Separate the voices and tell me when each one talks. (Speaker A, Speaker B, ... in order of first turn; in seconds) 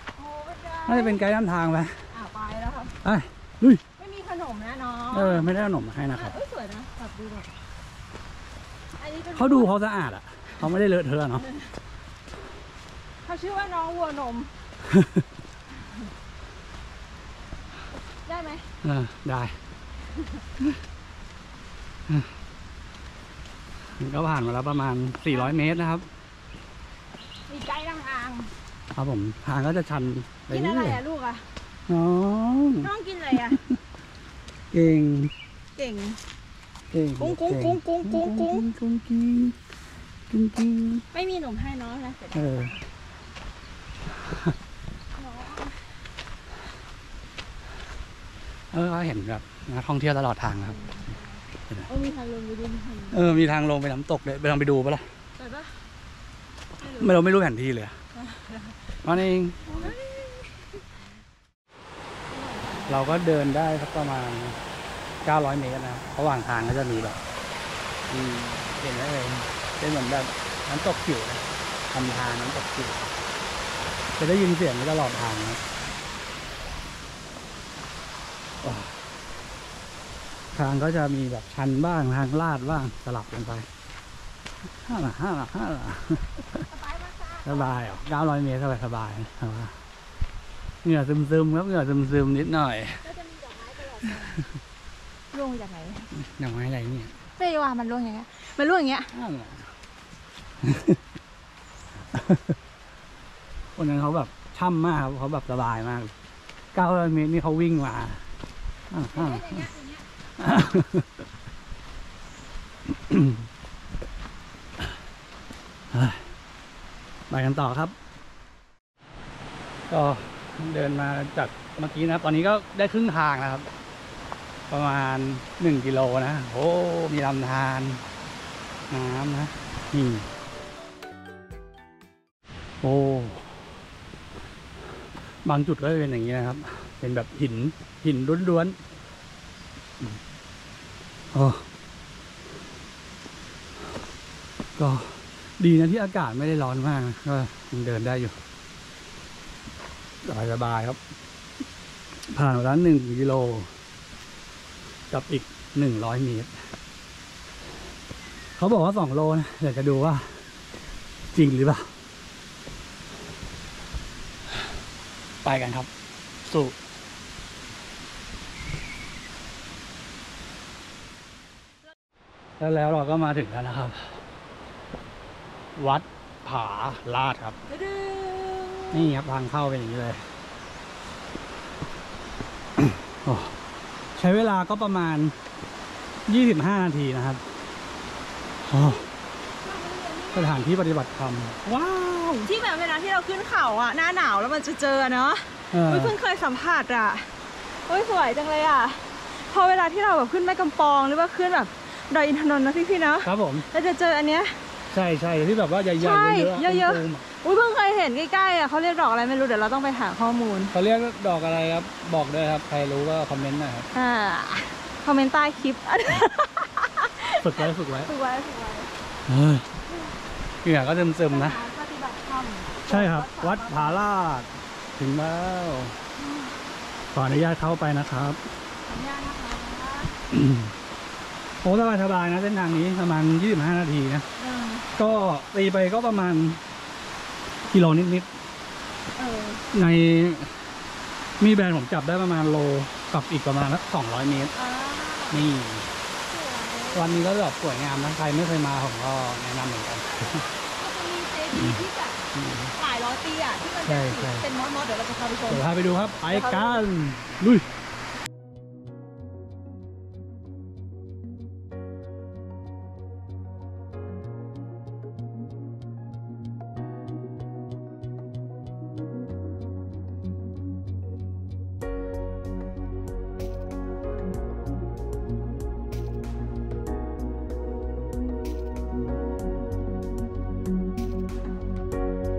Speaker A: 0.1-1.2, 2.1-3.0, 4.0-5.5, 6.1-7.5, 8.9-9.7, 13.2-14.5, 18.2-18.7, 27.5-28.5, 30.5-31.5, 32.8-33.6, 35.8-36.2, 37.2-38.7, 41.1-42.9, 45.1-46.0, 50.7-53.3, 55.4-55.8, 56.8-57.2, 58.2-58.8, 59.7-60.8, 62.3-63.3, 86.7-87.8, 93.0-94.4, 95.3-96.1, 97.4-99.1, 109.1-110.1, 177.7-179.1, 189.6-190.7, 192.4-197.3, 197.9-204.6, 205.9-210.7, 213.9-218.9, 221.3-224.0, 226.2-226.5, 228.8-230.2, 234.4-234.9, 239.2-239.7, 244.5-245.5, 246.3-247.1, 250.3-252.2, 252.7-255.7, 256.2-256.9
Speaker B: 0.9-2.0, 3.0-3.8, 5.1-6.4, 9.3-11.5, 14.9-15.2, 18.8-19.6, 24.0-26.1, 28.9-31.0, 31.9-32.9, 34.7-35.3, 36.9-39.6, 40.3-41.1, 42.3-42.7, 44.2-44.5, 48.7-50.8, 53.1-55.0, 56.9-58.0, 59.0-60.0, 62.9-64.6, 65.2-67.2, 68.1-73.2, 74.2-75.6, 78.6-79.0, 80.5-83.7, 84.8-86.7, 87.4-89.8, 90.8-93.1, 96.1-97.2, 99.1-99.7, 100.6-101.0, 102.1-102.5, 103.8-106.1, 106.7-108.2, 108.9-109.7, 110.4-111.1, 112.9-113.5, 115.9-116.3, 117.3-118.0, 119.9-123.7, 124.7-128.0, 128.9-130.3, 132.8-133.7, 135.4-138.8, 141.3-141.7, 144.8-148.4, 150.2-151.0, 152.3-153.7, 155.1-156.6, 158.6-160.5, 161.3-161.9, 165.4-165.9, 166.5-166.8, 172.6-174.2, 175.8-177.6, 178.9-180.2, 182.8-183.6, 184.2-185.4, 186.3-187.4, 188.7-189.1, 190.3-192.5, 195.7-196.2, 203.2-203.7, 204.9-207.2, 210.7-213.9, 217.3-218.1, 219.3-219.7, 220.6-221.6, 222.9-226.0, 227.1-228.4, 230.3-230.7, 231.6-234.3, 234.9-236.6, 237.7-238.3, 239.7-240.5, 241.4-244.5, 245.3-245.9, 246.9-250.5, 251.6-251.8, 252.3-252.7, 253.9-254.5, 255.5-257.7